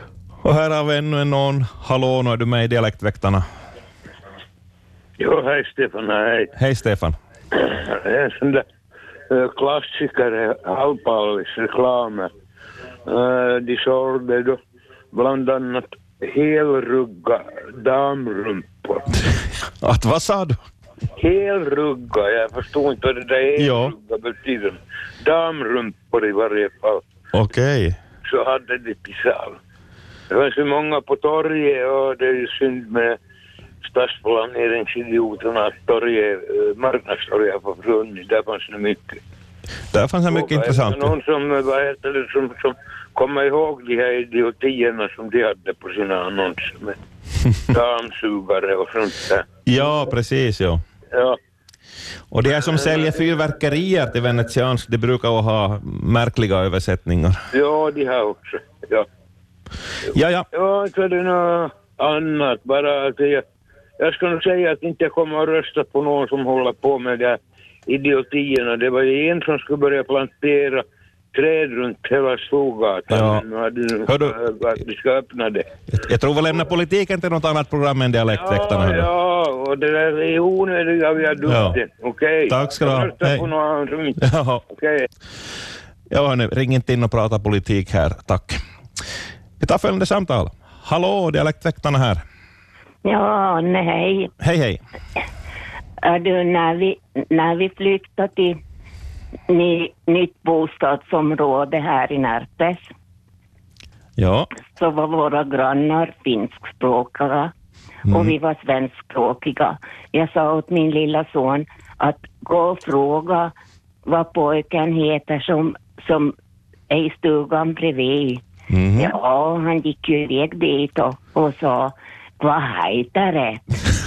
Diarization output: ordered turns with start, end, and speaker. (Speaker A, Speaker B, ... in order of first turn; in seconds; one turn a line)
Speaker A: 0.4-3.4
Speaker B: 5.2-6.5
Speaker A: 6.5-7.2
Speaker B: 7.5-8.7
Speaker B: 9.3-12.3
Speaker B: 13.1-14.6
Speaker B: 15.1-19.1
Speaker A: 19.8-20.6
Speaker B: 21.2-27.0
Speaker A: 23.6-23.9
Speaker A: 27.3-28.0
Speaker B: 28.2-29.6
Speaker B: 30.3-33.2
Speaker B: 33.8-39.2
Speaker A: 39.9-41.1
Speaker B: 40.3-47.0
Speaker B: 47.7-49.5
Speaker A: 49.6-50.8
Speaker B: 51.1-51.4
Speaker A: 52.3-57.4
Speaker B: 52.6-53.2
Speaker B: 57.5-59.1
Speaker A: 60.1-60.5
Speaker B: 60.5-63.4
Speaker B: 64.0-75.7
Speaker A: 73.1-73.4
Speaker A: 74.0-74.4
Speaker A: 75.9-79.1
Speaker B: 78.3-85.0
Speaker A: 81.5-81.8
Speaker A: 82.5-83.5
Speaker A: 84.2-84.6
Speaker A: 86.1-88.6
Speaker A: 89.6-92.2
Speaker C: 93.0-94.3
Speaker A: 94.4-94.8
Speaker C: 96.0-98.6
Speaker C: 99.5-102.9
Speaker A: 104.2-104.5
Speaker C: 104.7-107.5
Speaker A: 108.1-108.3
Speaker C: 108.1-113.5
Speaker C: 114.0-116.3
Speaker C: 116.9-118.4
Speaker A: 118.7-119.1
Speaker C: 118.9-123.6